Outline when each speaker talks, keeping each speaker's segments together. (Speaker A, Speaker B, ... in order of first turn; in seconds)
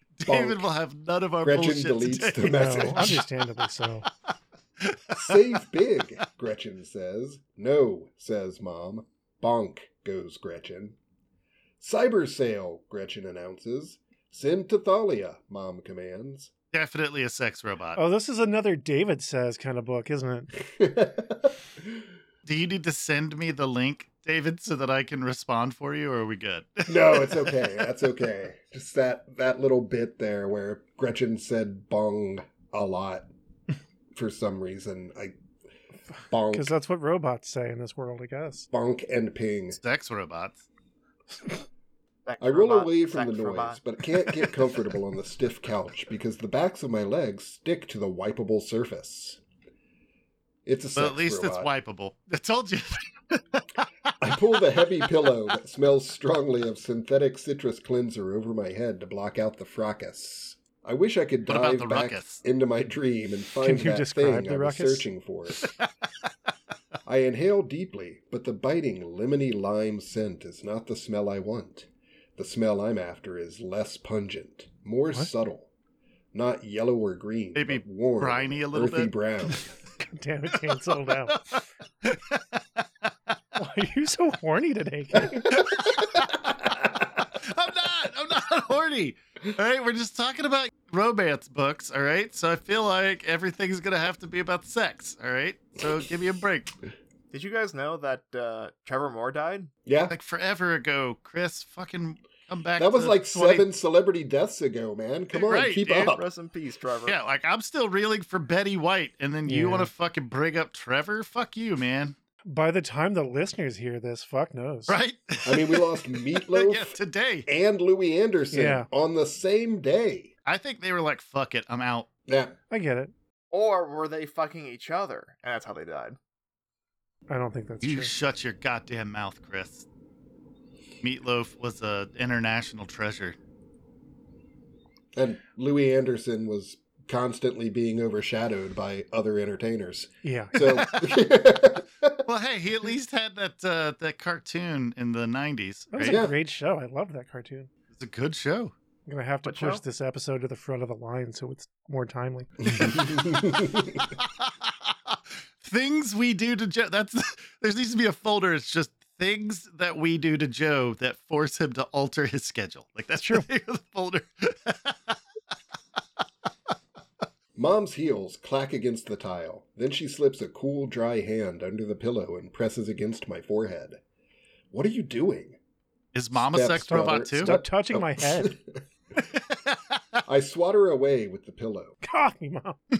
Speaker A: 0.2-3.2, 4.8-5.4, 16.7-18.0, 22.4-27.8, 39.7-40.6, 51.0-53.9, 61.5-62.4, 77.5-79.1, 80.7-82.8, 85.5-86.7, 87.2-96.7, 100.1-103.7, 105.3-106.1, 107.0-112.2, 114.9-117.5, 120.5-122.1, 127.8-129.8, 131.0-133.4, 140.6-141.2, 142.2-146.2, 147.9-148.7, 152.8-165.2, 176.1-177.6, 179.3-180.0
Speaker B: 0.2-0.7, 1.4-3.2, 5.2-11.0, 11.8-16.5, 20.6-21.8, 26.9-33.3, 34.1-35.4, 36.3-36.7, 38.7-39.8, 42.4-49.4, 50.6-51.7, 54.2-65.7, 67.0-75.7, 76.3-79.7, 99.8-100.1, 102.8-106.2, 115.4-117.0, 117.5-120.3, 122.3-122.5, 135.1-142.2, 146.0-146.3, 152.7-154.0, 167.5-174.0, 174.7-175.6, 176.3-178.8, 180.2-182.0
Speaker C: 2.4-4.1, 17.9-20.5, 36.5-38.7, 63.6-65.1, 80.0-81.4, 83.5-85.5, 109.5-109.9, 112.5-115.0, 118.5-118.9, 122.7-123.1, 127.3-128.1, 140.2-140.6, 145.9-147.7, 149.1-152.9, 163.2-163.5, 176.9-178.6, 182.0-182.8
Speaker D: 42.2-43.8, 97.3-99.7, 105.9-107.2, 123.5-126.2, 149.4-149.8